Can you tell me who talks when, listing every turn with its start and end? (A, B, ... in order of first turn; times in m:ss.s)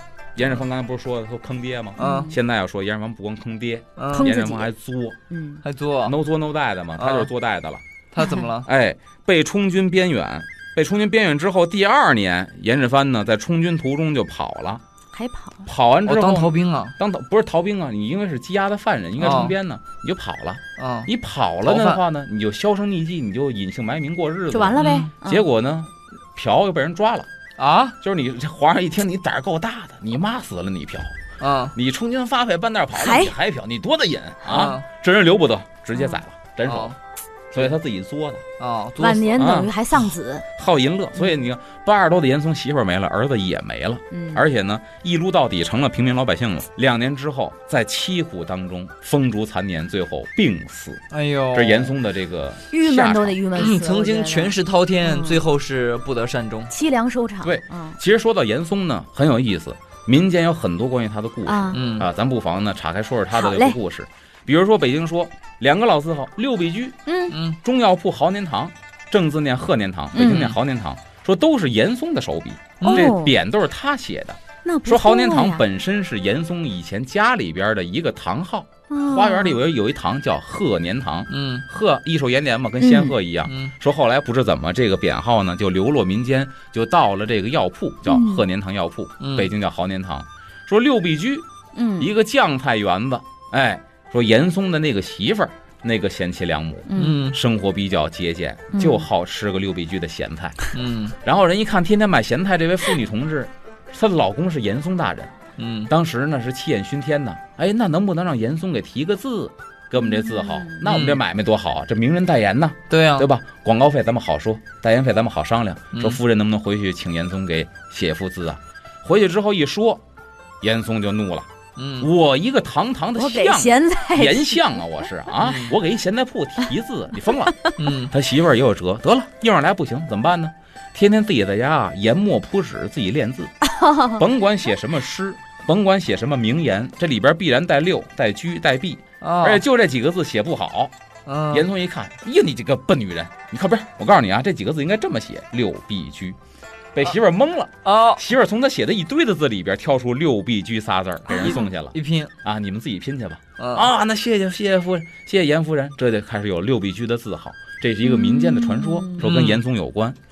0:00.3-0:05.2 A
0:02.0-0:02.3 B
0:02.0-0:02.3 C
0:04.0-0:04.3 B
0:04.1-0:04.7 C
0:05.3-0:05.6 C
0:05.6-0:06.2 B
0:06.0-0:07.8 A
0:07.0-0:07.3 B
0:08.1-0:08.7 B
0:08.2-0:08.4 C
0:08.6-0:14.8 A
0:15.1-0:15.7 C
0:15.6-0:27.3 A
0:16.0-0:16.9 B
0:19.2-0:19.6 B
0:20.8-0:21.1 B
0:21.6-0:22.0 B
0:24.5-0:25.5 C
0:24.8-0:25.1 B
0:27.6-0:28.0 B
0:28.0-0:31.2 A
0:31.4-0:31.7 B
0:31.7-0:37.0 A
0:32.9-0:33.3 C
0:34.4-0:34.8 B
0:36.6-0:37.0 B
0:37.5-0:38.4 A
0:38.6-0:39.5 B
0:39.0-0:40.4 C
0:39.4-0:39.7 A
0:40.6-0:53.4 A
0:44.1-0:44.4 C
0:51.1-0:51.9 B
0:52.7-0:55.4 C
0:53.6-0:56.7 B
0:56.7-0:58.0 C
0:57.4-1:07.0 A
1:01.4-1:01.8 C
1:01.7-1:02.1 B
1:03.3-1:03.8 C
1:07.0-1:07.4 C
1:07.3-1:07.6 B
1:07.6-1:31.5 A
1:10.1-1:10.5 C
1:10.2-1:10.5 B
1:12.8-1:13.1 B
1:12.8-1:13.4 C
1:14.6-1:15.6 C
1:18.9-1:19.6 C
1:21.3-1:21.6 B
1:22.8-1:23.1 C
1:23.5-1:23.7 B
1:28.1-1:28.4 C
1:29.2-1:29.5 B
1:31.7-1:32.1 C
1:32.0-1:40.7 A
1:36.9-1:37.2 C
1:36.9-1:37.4 B
1:38.7-1:39.0 C
1:40.7-1:41.1 B
1:41.2-1:45.3 A
1:45.6-1:45.9 B
1:45.9-2:00.0 A
1:50.0-1:50.8 C
1:50.8-1:51.2 B
1:52.9-1:53.3 B
1:55.9-1:56.2 B
2:00.6-2:07.6 A
2:01.8-2:02.1 B
2:03.2-2:04.6 C
2:05.4-2:05.8 B
2:07.4-2:07.7 C
2:07.8-2:08.1 B
2:08.1-2:13.5 A
2:13.6-2:14.2 C
2:14.1-2:20.9 A
2:19.2-2:19.6 B
2:21.2-2:21.7 B
2:21.5-2:26.4 A
2:26.9-2:40.2 A
2:27.8-2:28.2 B
2:31.3-2:32.3 B
2:31.3-2:31.6 C
2:33.6-2:33.9 B
2:38.0-2:39.2 C
2:39.2-2:39.6 B